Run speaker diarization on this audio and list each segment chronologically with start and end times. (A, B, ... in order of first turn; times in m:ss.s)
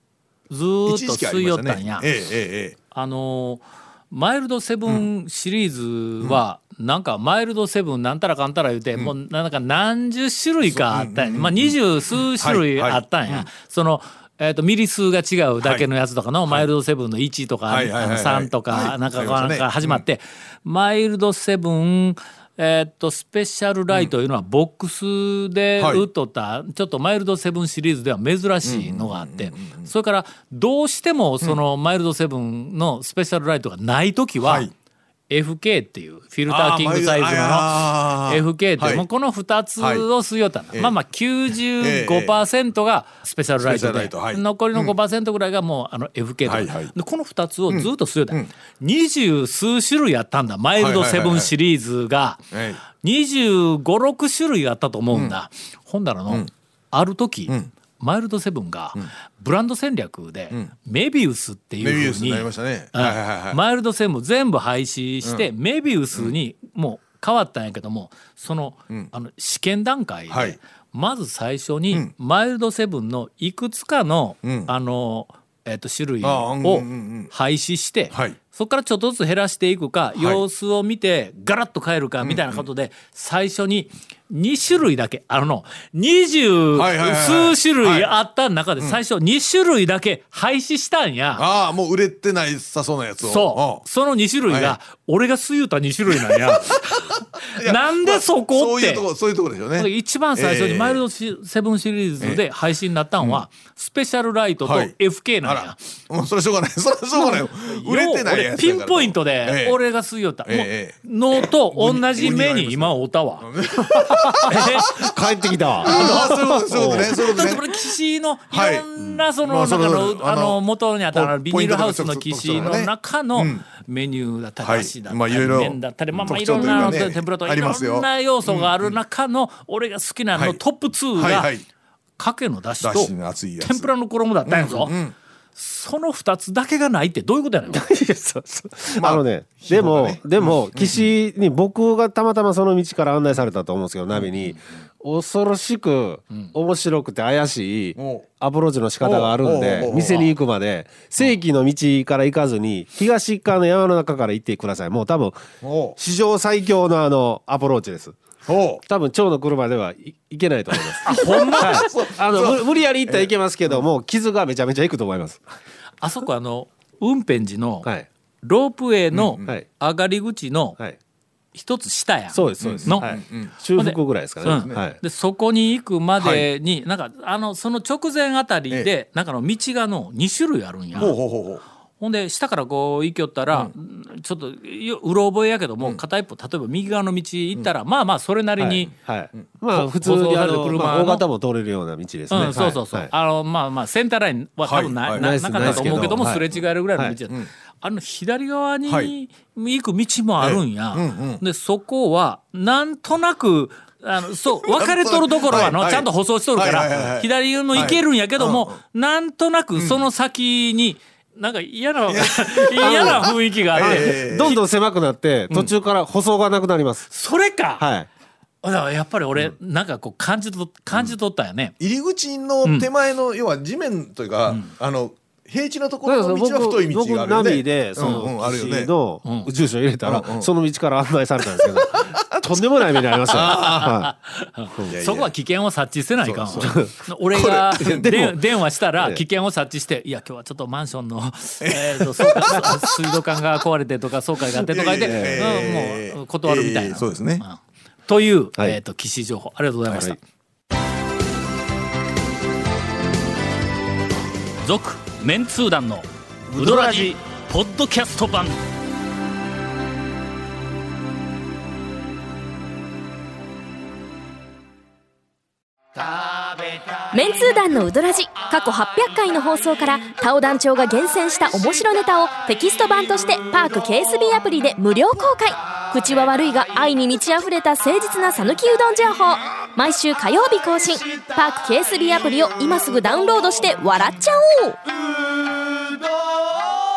0:00.5-0:02.1 A
0:00.8-0:02.8 B
0:02.9-0:34.7 A
0:10.6-0:13.5 B
0:17.7-0:20.0 B
0:25.8-0:26.0 B
0:28.6-0:29.9 B
0:34.4-0:34.7 B
0:35.3-1:31.4 A
0:36.5-0:39.0 B
0:39.8-0:40.0 B
0:41.8-0:42.4 B
0:43.6-0:44.9 B
0:46.4-0:46.9 B
0:47.7-0:48.5 B
0:50.8-0:51.5 B
0:52.5-0:52.8 B
1:01.8-1:03.6 B
1:10.3-1:10.6 B
1:14.4-1:14.7 B
1:16.2-1:17.3 B
1:20.2-1:20.4 B
1:22.2-1:22.7 B
1:26.7-1:28.1 B
1:31.4-1:33.8 B
1:33.2-1:39.1 A
1:34.5-1:34.8 B
1:36.2-1:41.0 B
1:39.8-1:45.8 A
1:44.6-1:49.8 B
1:47.2-1:53.5 A
1:50.4-1:55.1 B
1:53.9-1:57.3 C
1:54.4-1:55.1 A
1:55.8-1:57.6 B
1:55.8-2:11.5 A
1:58.5-1:58.8 B
1:59.4-2:03.6 B
2:04.6-2:09.0 B
2:06.6-2:06.9 C
2:11.2-2:11.6 B
2:12.2-2:15.0 A
2:12.8-2:13.9 B
2:14.4-2:15.1 B
2:15.6-2:17.8 A
2:17.7-2:35.4 C
2:18.9-2:21.1 B
2:28.0-2:28.3 B
2:29.0-2:30.3 B
2:35.6-2:36.0 B
2:36.0-2:38.2 C
2:38.4-2:38.8 B
2:38.8-2:45.4 C
2:41.0-2:41.9 A
2:41.1-2:43.3 B
2:46.0-2:47.9 A
2:48.4-2:50.8 A
2:49.1-2:49.5 B
2:51.5-2:53.1 A
2:52.3-2:55.0 C
2:52.6-2:53.5 B
2:53.8-3:01.2 A
2:54.4-2:54.8 B
2:56.2-2:56.4 B
3:00.9-3:01.6 B
3:02.0-3:08.9 A
3:08.6-3:13.1 C
3:09.7-3:11.2 A
3:12.3-3:34.6 A
3:14.6-3:16.6 B
3:15.1-3:16.4 C
3:20.4-3:21.4 B
3:24.6-3:28.8 B
3:29.8-3:30.0 B
3:32.1-3:34.6 B
3:32.8-3:37.1 C
3:37.1-3:37.8 A
3:37.8-3:38.1 C
3:38.6-3:41.7 A
3:41.8-3:48.9 B
3:46.0-3:54.1 C
3:50.0-3:50.5 B
3:52.0-3:52.6 B
3:53.2-3:53.9 B
3:53.4-4:10.2 A
3:54.9-3:55.3 B
3:56.2-3:58.3 B
3:56.6-3:56.9 C
3:57.8-3:58.1 C
3:59.0-3:59.2 C
4:01.6-4:03.2 B
4:04.6-4:07.4 B
4:05.0-4:05.7 C
4:09.9-4:10.2 C
4:14.7-4:16.0 A
4:16.5-4:17.0 C
4:16.6-4:18.5 A
4:16.7-4:17.0 B
4:27.1-4:44.8 D